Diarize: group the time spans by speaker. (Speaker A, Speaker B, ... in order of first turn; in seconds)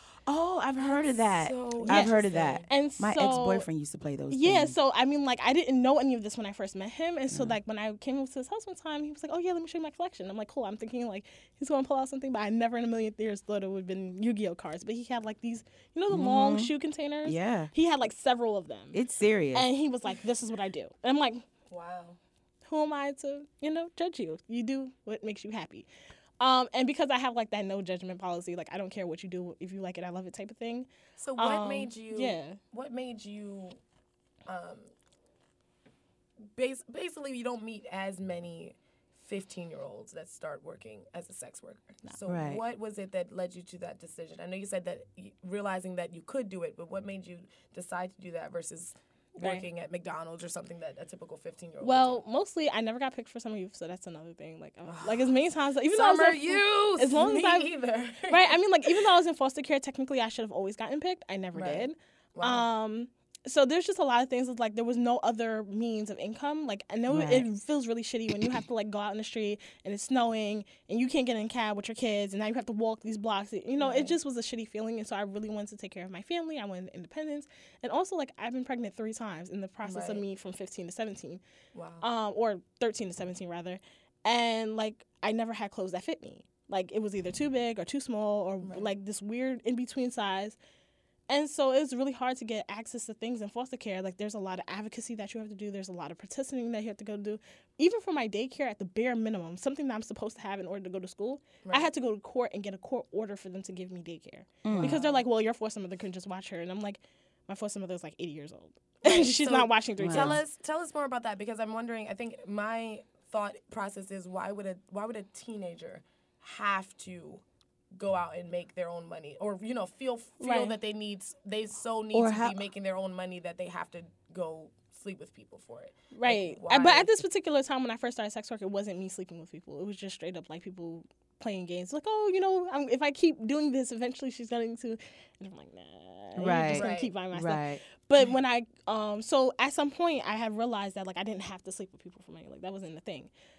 Speaker A: 0.2-4.7, 7.3-7.5, 16.1-16.7, 17.2-17.7, 18.9-19.7, 42.3-42.6, 67.1-67.5, 104.6-105.0, 110.0-110.4, 122.1-122.6, 136.3-137.8
Speaker B: 0.8-2.6, 21.7-22.2, 31.2-33.8, 34.5-34.9, 36.5-52.2, 54.9-55.4, 55.9-59.1, 61.5-62.7, 73.8-74.2, 79.8-80.2, 81.7-82.0, 88.6-88.9, 101.6-101.9, 104.7-105.2, 109.0-117.4, 117.9-127.2, 136.7-137.1
Speaker C: 1.9-3.7, 4.3-19.0, 19.5-21.4, 22.6-25.9, 26.4-32.6, 51.8-57.7, 58.3-81.4, 82.0-90.6, 91.3-110.4, 120.4-120.7, 126.1-143.3